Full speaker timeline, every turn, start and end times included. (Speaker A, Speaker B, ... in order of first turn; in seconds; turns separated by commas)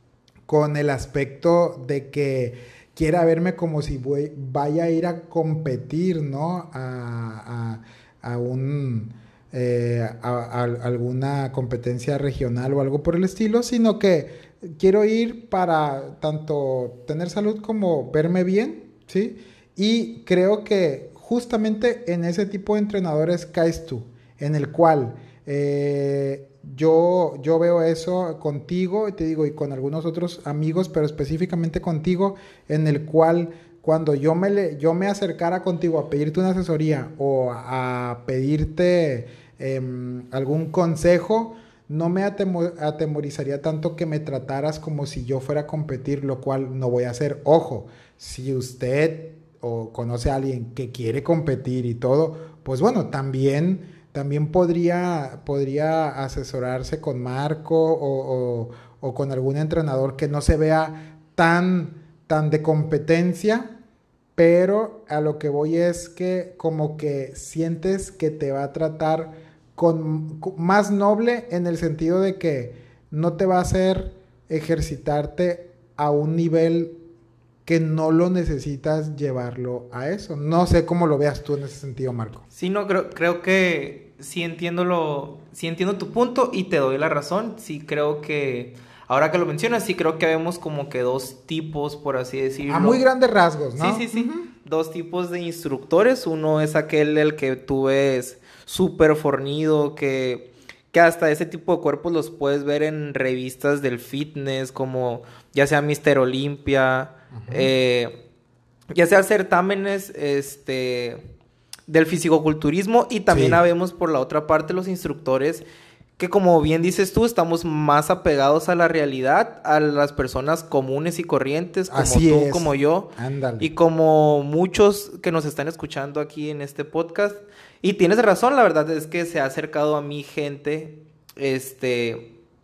Speaker A: 0.5-63.8, Speaker A: 64.3-77.0, Speaker A: 77.7-82.4, Speaker B: 82.5-93.0, Speaker A: 92.7-94.5, Speaker B: 93.8-108.2, Speaker A: 107.3-107.7, Speaker B: 108.9-111.2, Speaker B: 111.9-115.6, Speaker A: 113.3-113.6, Speaker B: 116.2-132.3, Speaker A: 121.9-123.7